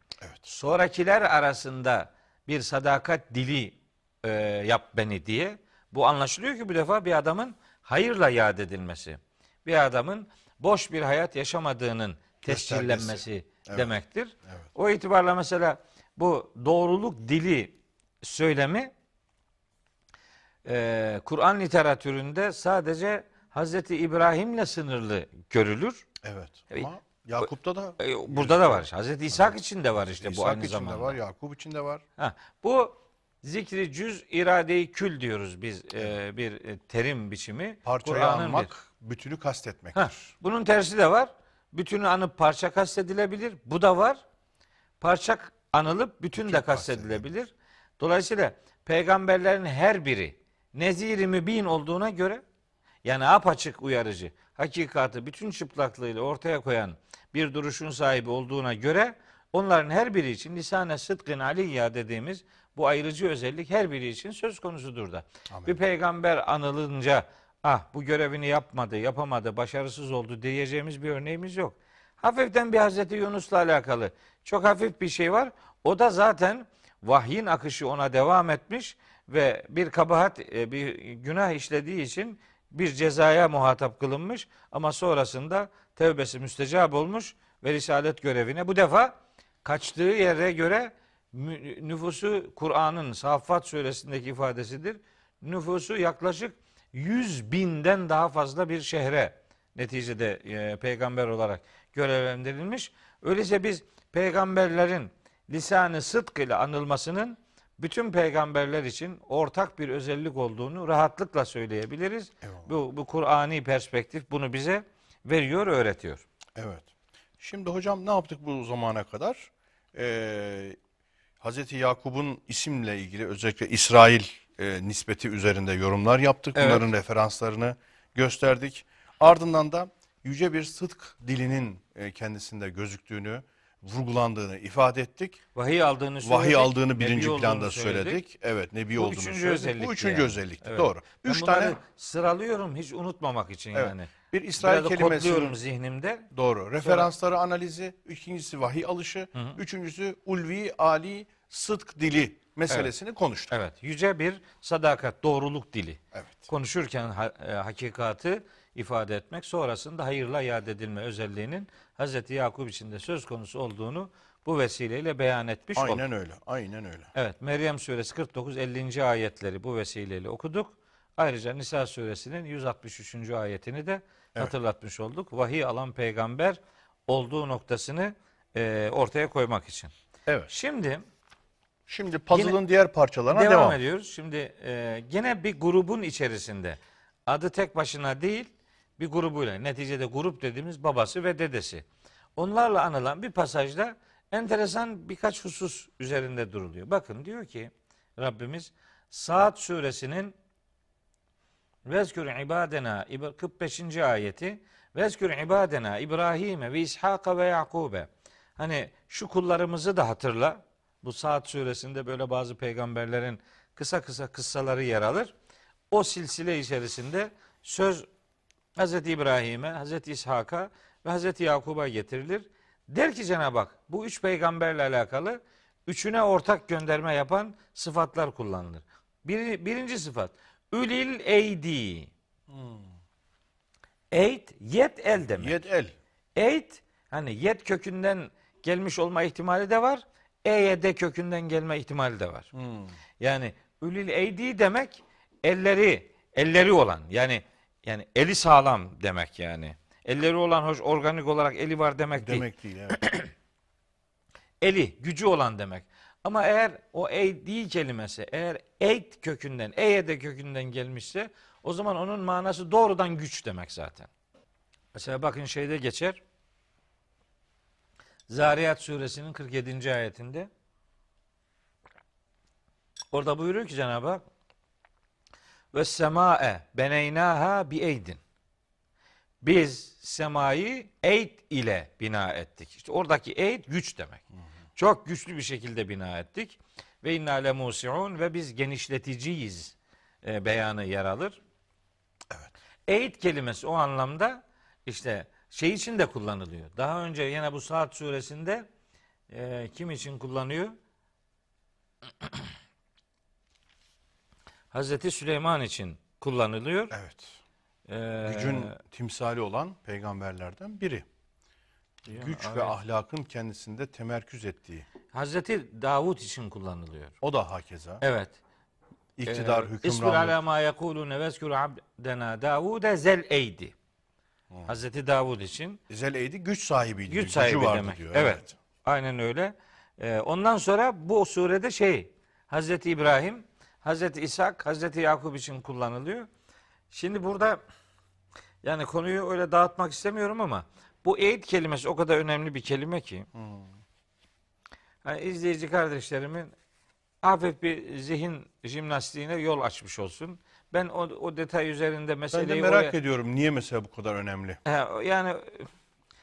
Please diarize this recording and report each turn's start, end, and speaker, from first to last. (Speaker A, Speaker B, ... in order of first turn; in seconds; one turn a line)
Speaker A: 0.5-18.9
Speaker B: 12.4-14.0
Speaker A: 20.6-26.1
Speaker B: 26.2-32.0
Speaker A: 28.0-31.2
Speaker A: 32.2-38.7
Speaker B: 37.8-40.3
Speaker A: 39.9-44.2
Speaker A: 45.0-52.4
Speaker B: 46.3-47.3
Speaker A: 53.0-116.2
Speaker B: 65.5-65.8
Speaker B: 112.4-112.7
Speaker B: 116.5-116.9
Speaker B: 117.4-120.8
Speaker B: 121.4-135.4
Speaker A: 126.5-126.9
Speaker A: 135.5-138.2
Speaker B: 136.2-141.8
Speaker A: 138.9-146.3
Speaker B: 143.7-145.6
Speaker B: 146.3-153.5
Speaker A: 146.8-147.1
Speaker A: 153.5-166.0
Speaker B: 156.1-156.5
Speaker B: 165.8-167.1
Speaker A: 167.1-179.9
Speaker A: 180.5-181.0
Speaker B: 181.9-183.8
Speaker A: 182.3-182.6
Speaker A: 183.3-200.3
Speaker A: 201.8-215.3
Speaker A: 215.9-218.1
Speaker A: 218.8-232.1
Speaker B: 232.5-232.8
Speaker A: 234.1-235.5
Speaker B: 235.3-235.9
Speaker A: 236.3-242.5
Speaker B: 242.5-242.9
Speaker A: 243.2-253.3
Speaker B: 252.1-253.0
Speaker A: 254.6-264.1
Speaker A: 264.9-266.2
Speaker A: 268.3-270.5
Speaker A: 273.1-274.2
Speaker A: 275.7-278.2
Speaker A: 279.4-284.2
Speaker A: 284.8-291.4
Speaker A: 292.9-298.7
Speaker A: 299.3-300.7
Speaker A: 302.2-302.5
Speaker A: 304.7-306.9
Speaker B: 306.9-307.4
Speaker A: 307.9-308.7
Speaker B: 308.2-311.1
Speaker B: 312.1-314.9
Speaker A: 312.1-312.8
Speaker A: 315.1-317.1
Speaker B: 317.2-318.0
Speaker A: 318.0-318.4
Speaker B: 319.2-320.4
Speaker A: 319.3-323.7
Speaker A: 324.6-325.8
Speaker B: 325.9-328.6
Speaker A: 327.1-336.3
Speaker A: 336.9-337.6
Speaker A: 338.6-343.3
Speaker B: 343.3-343.7
Speaker A: 345.0-346.5
Speaker A: 347.2-352.9
Speaker B: 352.3-354.6
Speaker A: 354.6-355.7